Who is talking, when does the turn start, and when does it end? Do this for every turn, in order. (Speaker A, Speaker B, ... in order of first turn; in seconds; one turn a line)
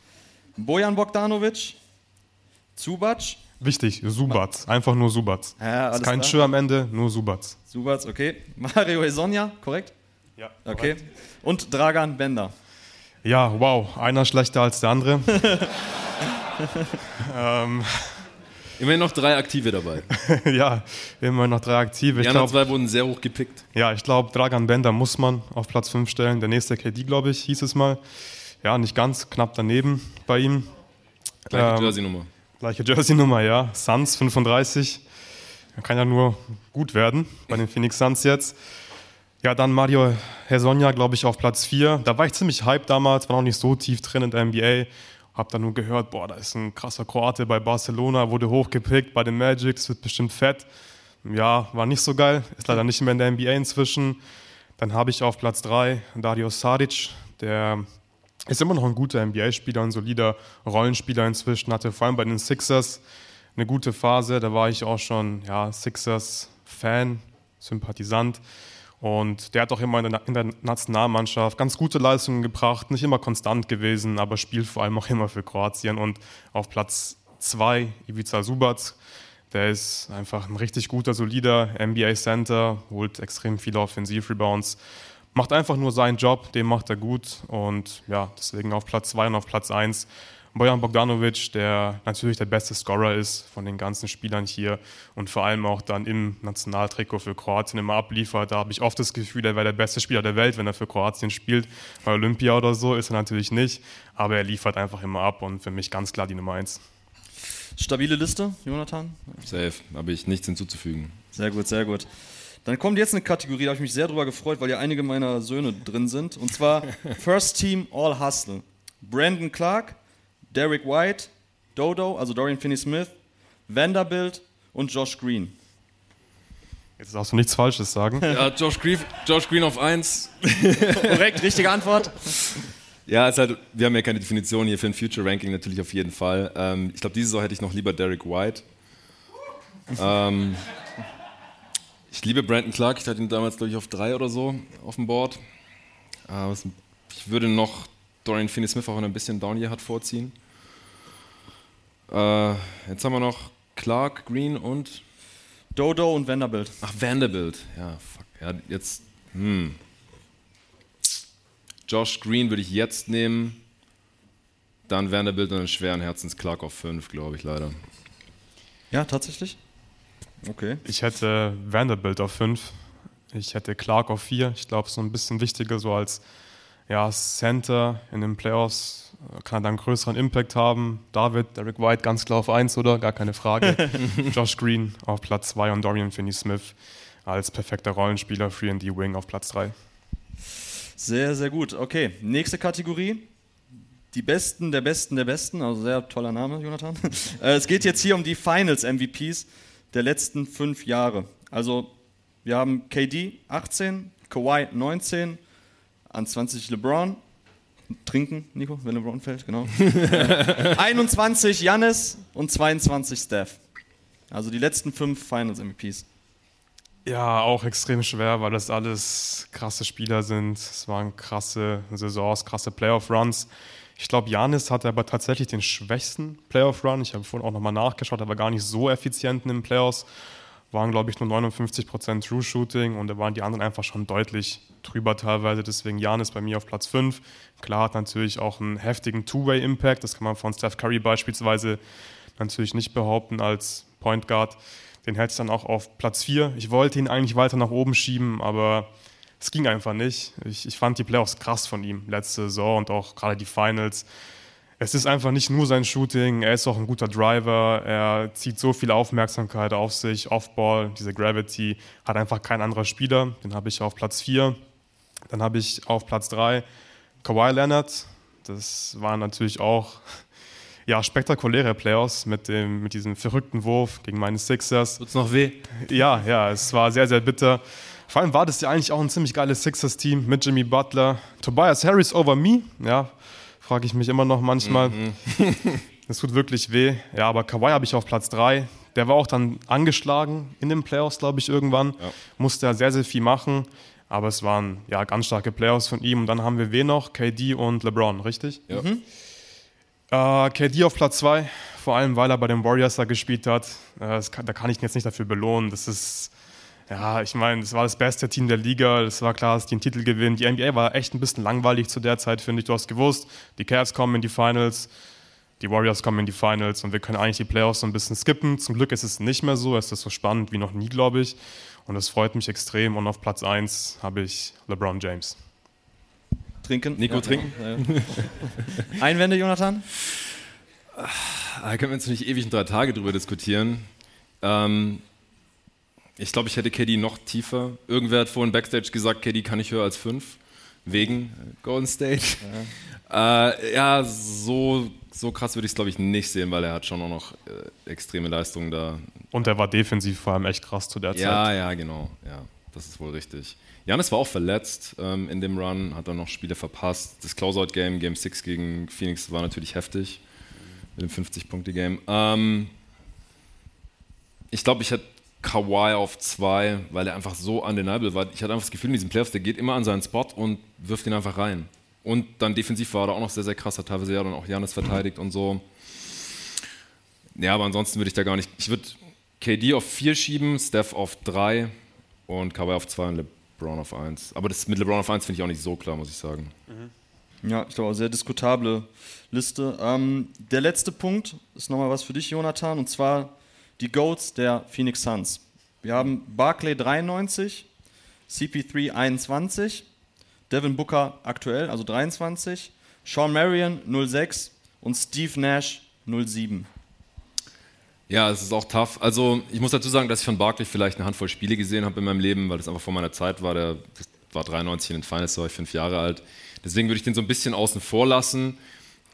Speaker A: 0.6-1.8
Speaker A: 2.8-3.4
Speaker B: 3.6-7.6
Speaker A: 5.6-6.5
Speaker A: 7.7-9.9
Speaker B: 10.4-10.9
Speaker A: 10.6-12.5
Speaker B: 13.2-15.4
Speaker A: 15.4-15.7
Speaker B: 17.2-18.1
Speaker C: 18.8-20.1
Speaker B: 20.2-22.6
Speaker C: 22.1-23.6
Speaker B: 23.7-28.0
Speaker B: 28.6-30.7
Speaker C: 31.5-32.3
Speaker B: 31.5-32.0
Speaker B: 32.6-35.0
Speaker B: 35.8-38.5
Speaker B: 39.4-50.7
Speaker B: 51.2-54.2
Speaker B: 54.8-57.9
Speaker B: 58.5-63.0
Speaker B: 63.5-68.4
Speaker B: 69.0-79.0
Speaker B: 79.5-84.8
Speaker B: 85.3-106.8
Speaker A: 107.8-109.4
Speaker C: 109.4-111.1
Speaker A: 111.3-112.1
Speaker A: 112.6-120.0
Speaker A: 120.5-123.1
Speaker A: 123.7-125.5
Speaker B: 127.0-128.2
Speaker C: 128.3-131.3
Speaker A: 130.9-132.6
Speaker C: 133.1-138.6
Speaker C: 139.9-140.6
Speaker C: 142.1-145.4
Speaker C: 146.3-150.3
Speaker C: 152.1-155.0
Speaker A: 155.7-156.8
Speaker C: 156.8-159.8
Speaker C: 161.8-163.6
Speaker C: 164.9-167.8
Speaker A: 168.9-169.6
Speaker A: 170.4-170.8
Speaker B: 170.8-176.2
Speaker B: 176.9-189.7
Speaker A: 191.0-193.3
Speaker A: 194.1-201.9
Speaker A: 202.4-205.4
Speaker A: 206.1-207.2
Speaker A: 208.0-213.6
Speaker C: 209.9-210.7
Speaker A: 214.3-216.0
Speaker B: 217.0-230.1
Speaker B: 230.7-241.8
Speaker B: 242.4-248.9
Speaker B: 249.4-254.1
Speaker B: 254.8-264.6
Speaker B: 265.3-266.6
Speaker B: 267.2-270.2
Speaker B: 270.9-275.0
Speaker C: 275.0-275.6
Speaker B: 275.7-285.0
Speaker C: 284.6-285.8
Speaker B: 286.1-298.6
Speaker A: 298.7-299.0
Speaker B: 300.1-306.3
Speaker B: 306.9-314.9
Speaker B: 315.6-325.4
Speaker A: 326.6-329.9
Speaker C: 326.9-328.4
Speaker C: 330.9-333.9
Speaker C: 334.4-335.0
Speaker C: 336.2-349.1
Speaker A: 342.4-342.7
Speaker B: 349.3-351.5
Speaker C: 351.1-360.2
Speaker C: 360.9-362.7
Speaker C: 364.5-376.6
Speaker C: 377.3-381.7
Speaker C: 382.3-386.5
Speaker A: 387.4-397.7
Speaker A: 398.3-399.9
Speaker A: 400.5-406.7
Speaker C: 408.1-418.6